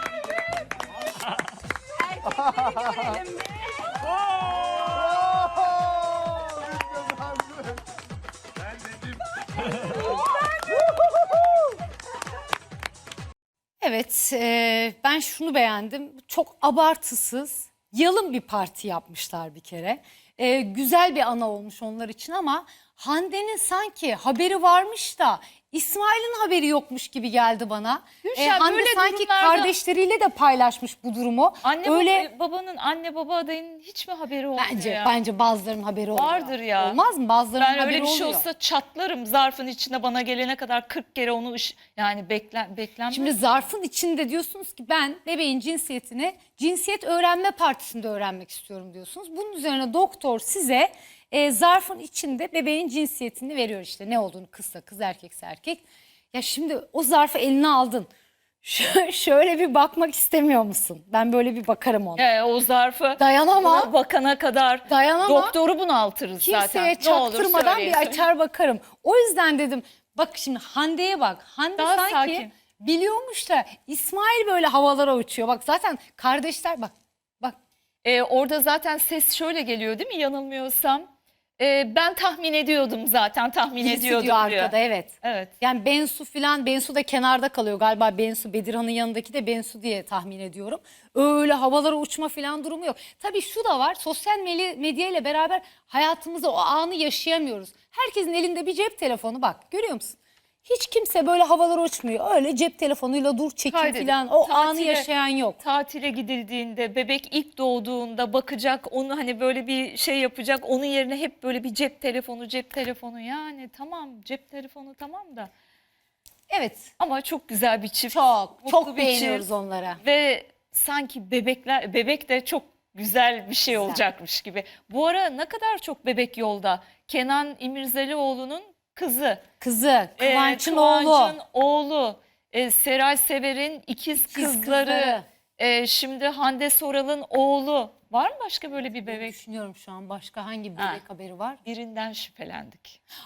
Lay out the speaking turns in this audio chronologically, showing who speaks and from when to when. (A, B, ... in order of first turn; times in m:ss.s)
0:13.8-0:32.3 A
0:28.2-0:29.7 B
0:31.6-0:35.1 B
0:34.6-0:38.4 A
0:36.1-0:37.0 B
0:37.6-0:43.4 B
0:43.1-0:58.1 A
0:58.6-1:02.3 A
1:02.2-1:08.2 B
1:03.2-1:03.9 A
1:04.9-1:05.5 A
1:06.4-1:17.6 A
1:11.8-1:12.5 B
1:18.0-1:21.1 B
1:21.6-1:25.5 B
1:23.8-1:45.6 A
1:43.7-1:45.1 B
1:45.6-1:55.5 B
1:56.5-1:56.9 A
1:57.0-1:59.5 B
1:58.1-2:00.0 A
2:00.0-2:09.4 B
2:03.7-2:04.0 A
2:09.6-2:11.4 A
2:10.2-2:19.4 B
2:14.2-2:15.2 A
2:18.7-2:21.6 A
2:20.8-2:21.0 B
2:21.6-2:23.0 B